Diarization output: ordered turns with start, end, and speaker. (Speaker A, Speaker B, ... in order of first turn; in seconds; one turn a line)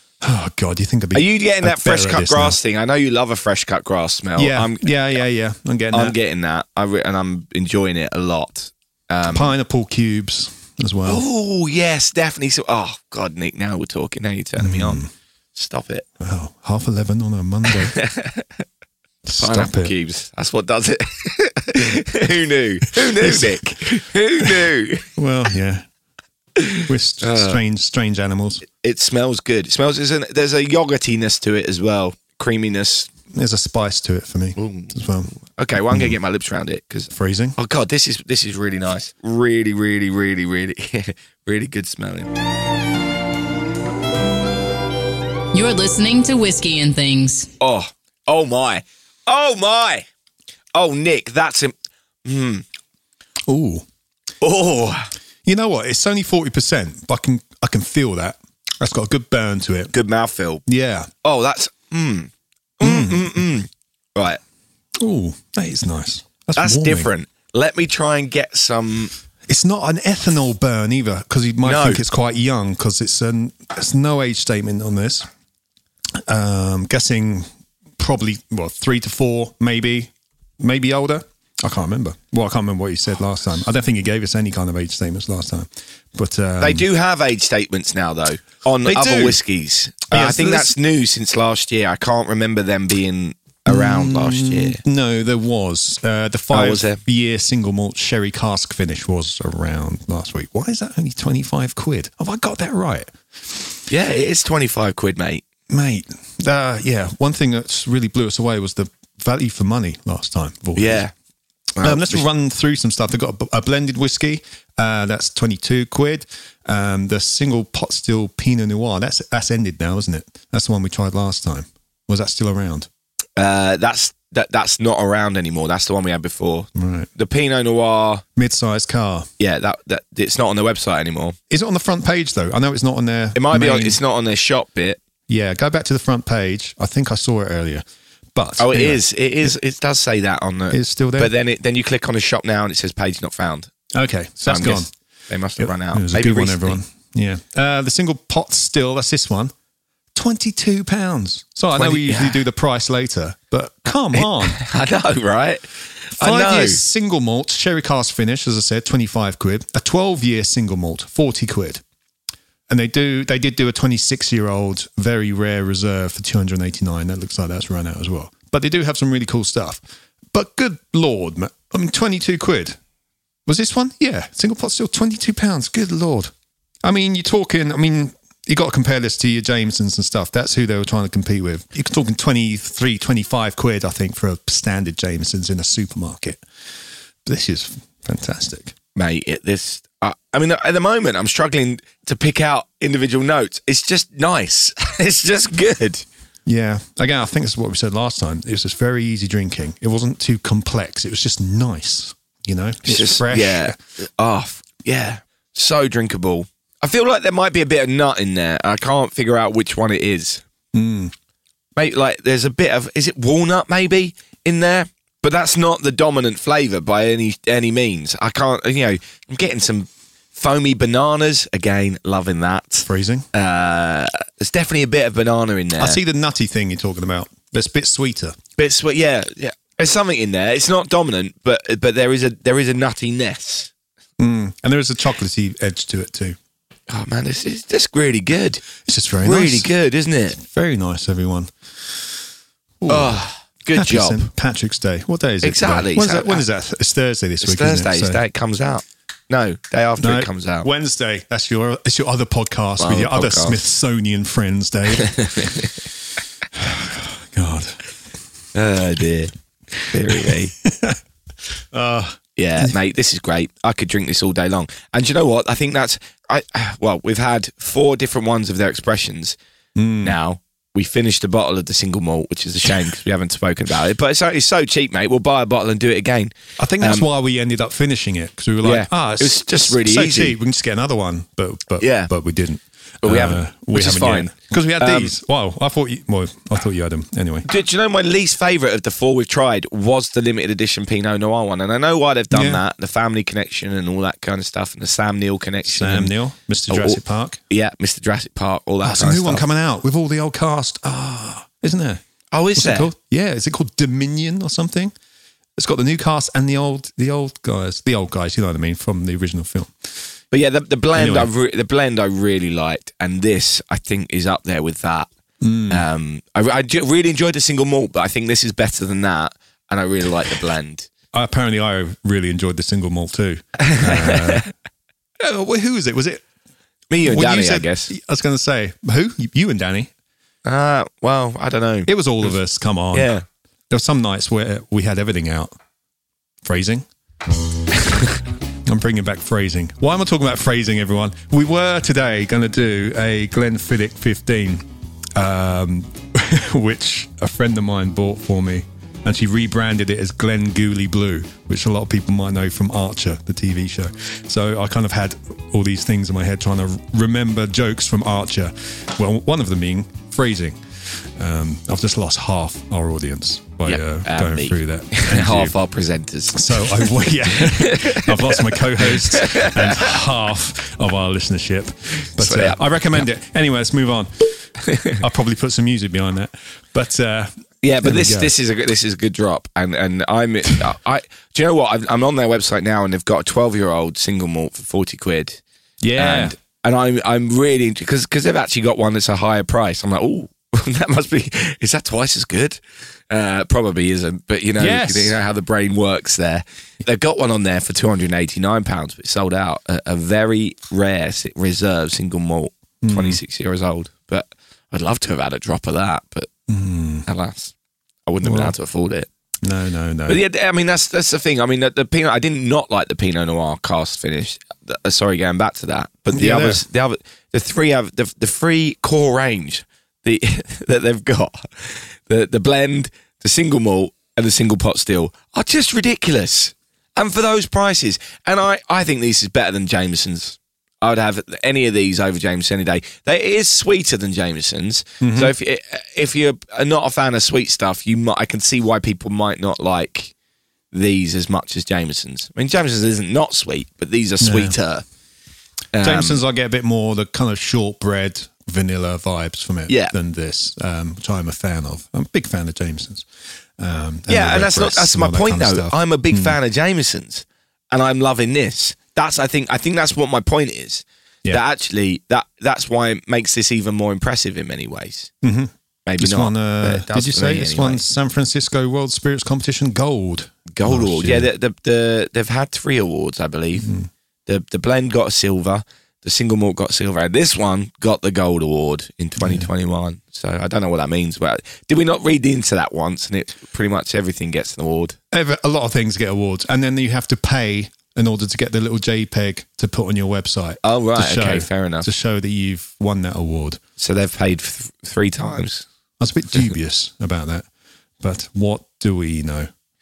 Speaker A: 0.2-2.6
Speaker B: 1.1-4.9
Speaker A: 4.4-6.2
Speaker B: 5.9-9.5
Speaker A: 9.3-11.2
Speaker B: 11.1-15.0
Speaker A: 14.6-15.1
Speaker B: 15.6-16.1
Speaker A: 16.2-18.0
Speaker B: 17.7-18.6
Speaker A: 19.2-19.9
Speaker B: 19.4-25.1
Speaker A: 23.0-23.6
Speaker A: 25.2-25.9
Speaker B: 26.6-27.6
Speaker A: 26.8-28.6
Speaker B: 28.7-33.1
Speaker A: 33.3-35.3
Speaker B: 34.6-42.3
Speaker A: 37.1-37.6
Speaker C: 45.5-47.5
Speaker B: 47.6-50.1
Speaker B: 50.7-52.6
Speaker A: 53.5-53.9
Speaker B: 54.4-55.1
Speaker A: 55.5-59.9
Speaker B: 59.9-60.6
Speaker A: 60.7-61.1
Speaker B: 61.2-64.4
Speaker A: 62.8-63.4
Speaker A: 65.0-67.1
Speaker B: 66.6-69.1
Speaker A: 69.5-75.3
Speaker B: 71.6-72.0
Speaker A: 76.2-86.9
Speaker B: 86.6-94.8
Speaker A: 88.8-89.4
Speaker A: 90.1-90.7
Speaker A: 93.7-103.7
Speaker B: 96.5-97.0
Speaker B: 103.9-105.4
Speaker A: 105.7-111.0
Speaker B: 110.8-111.1
Speaker B: 111.8-112.2
Speaker A: 111.8-122.9
Speaker B: 123.4-128.2
Speaker A: 126.8-127.1
Speaker A: 128.4-129.3
Speaker B: 129.4-131.4
Speaker A: 131.5-134.0
Speaker B: 133.3-135.0
Speaker A: 135.3-137.8
Speaker A: 138.3-139.5
Speaker B: 138.6-143.7
Speaker A: 140.7-141.3
Speaker A: 143.9-144.9
Speaker B: 144.4-146.8
Speaker A: 145.6-149.5
Speaker A: 150.2-154.6
Speaker B: 151.7-152.4
Speaker B: 154.2-156.8
Speaker A: 156.2-161.8
Speaker A: 162.7-172.8
Speaker A: 173.5-176.3
Speaker A: 176.8-186.4
Speaker A: 187.2-188.7
Speaker B: 188.9-196.1
Speaker A: 196.5-203.8
Speaker B: 202.8-210.4
Speaker A: 210.7-211.1
Speaker B: 211.8-226.0
Speaker A: 222.9-223.3
Speaker A: 225.8-228.4
Speaker B: 228.6-233.7
Speaker A: 234.2-236.4
Speaker B: 236.9-238.6
Speaker A: 238.8-239.7
Speaker B: 239.2-240.4
Speaker A: 240.3-242.1
Speaker A: 242.8-243.2
Speaker B: 242.9-244.3
Speaker A: 243.7-248.2
Speaker B: 245.4-246.4
Speaker B: 247.4-250.7
Speaker A: 250.0-255.6
Speaker B: 252.8-253.6
Speaker B: 255.0-255.7
Speaker A: 256.5-257.8
Speaker B: 258.5-260.5
Speaker A: 260.1-261.0
Speaker A: 261.6-262.7
Speaker B: 262.4-269.4
Speaker A: 269.8-270.2
Speaker B: 270.0-277.1
Speaker A: 276.6-287.5
Speaker B: 278.6-280.4
Speaker B: 281.8-282.1
Speaker B: 283.0-285.1
Speaker B: 287.5-296.1
Speaker A: 292.3-292.6
Speaker A: 295.7-297.4
Speaker B: 296.7-299.4
Speaker A: 298.8-302.0
Speaker B: 302.3-302.9
Speaker A: 302.6-304.9
Speaker A: 305.6-309.9
Speaker B: 310.3-315.1
Speaker A: 310.9-311.3
Speaker A: 315.4-315.9
Speaker B: 315.7-320.9
Speaker A: 321.1-324.5
Speaker B: 323.6-324.5
Speaker A: 325.2-326.2
Speaker B: 326.9-327.9
Speaker A: 327.0-329.9
Speaker B: 330.4-332.3
Speaker A: 331.9-333.1
Speaker B: 332.9-333.2
Speaker A: 333.7-335.5
Speaker A: 336.4-336.9
Speaker A: 338.7-344.6
Speaker A: 345.2-365.6
Speaker B: 363.6-369.9
Speaker A: 366.3-378.3
Speaker B: 372.2-373.0
Speaker B: 377.6-385.4
Speaker A: 385.8-386.4
Speaker B: 386.0-406.3
Speaker A: 394.6-395.2
Speaker A: 402.8-403.2
Speaker A: 406.5-407.1
Speaker B: 407.1-407.5
Speaker B: 408.1-409.1
Speaker A: 408.2-408.5
Speaker A: 409.4-410.2
Speaker B: 410.1-440.1
Speaker A: 416.1-416.6
Speaker A: 435.0-435.3
Speaker B: 440.7-444.8
Speaker A: 444.2-444.6
Speaker B: 445.7-446.2
Speaker A: 445.8-453.1
Speaker B: 449.7-449.9
Speaker A: 453.6-456.4
Speaker B: 454.1-465.1
Speaker A: 465.2-471.3
Speaker B: 465.9-467.8
Speaker B: 470.5-473.7
Speaker A: 473.6-473.9
Speaker B: 474.3-485.0
Speaker A: 479.2-479.5
Speaker A: 485.1-493.6
Speaker B: 490.6-491.9
Speaker B: 493.8-495.6
Speaker A: 496.0-497.5
Speaker A: 498.0-499.5